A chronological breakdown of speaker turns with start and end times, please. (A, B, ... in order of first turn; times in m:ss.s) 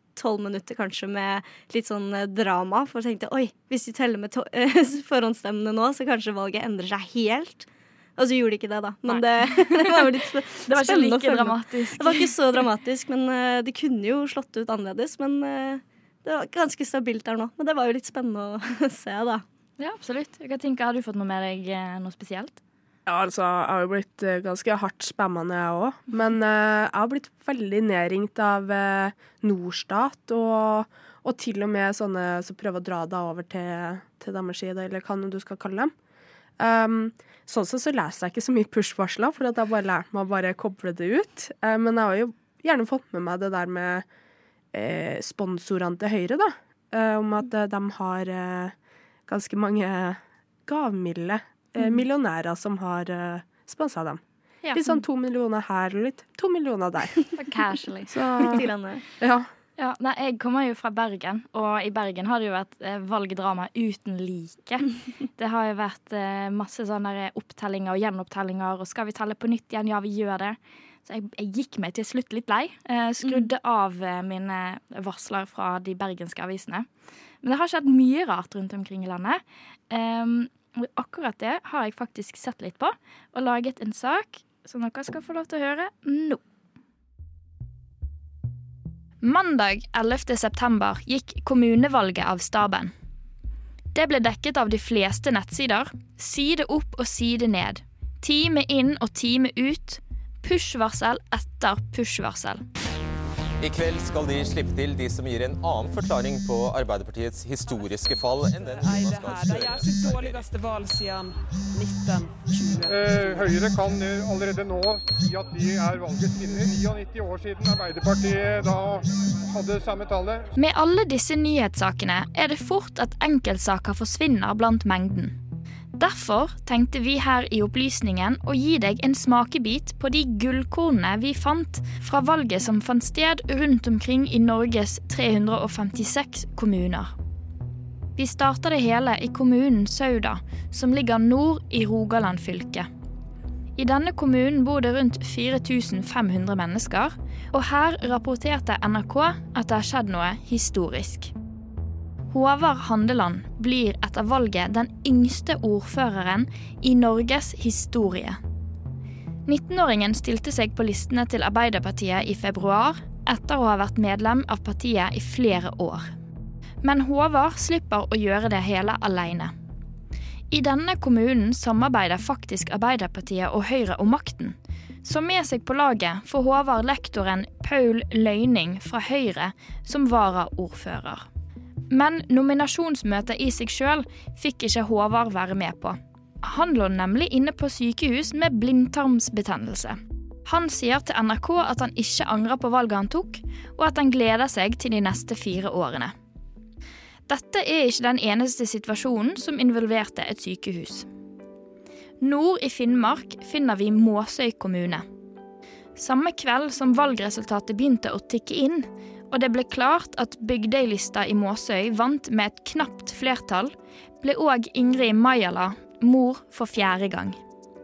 0:00.2-0:19.4 A
0:09.0-0:10.0 B
0:10.6-0:12.3 B
0:19.8-0:22.6 B
0:23.0-0:35.9 C
0:36.6-0:44.0 C
0:44.7-0:48.7 C
0:49.3-0:54.2 C
0:54.6-0:55.0 B
0:54.7-0:57.2 C
0:57.4-0:58.5 B
0:58.1-0:58.6 C
0:58.4-0:59.0 A
0:59.2-0:59.5 C
0:59.8-1:16.9 B
1:17.4-1:26.4 B
1:29.2-1:32.9 B
1:33.9-1:42.6 B
1:43.6-1:50.4 D
1:48.6-1:53.5 E
1:52.9-2:00.4 F
2:00.6-2:05.4 B
2:05.9-2:17.1 B
2:18.2-2:22.9 B
2:23.8-2:31.3 B
2:32.3-2:38.4 B
2:39.4-2:46.1 B
2:46.8-2:49.5 B
2:50.5-3:01.2 B
3:01.9-3:16.1 B
3:17.3-3:21.1 B
3:22.2-3:25.0 B
3:26.0-3:37.4 B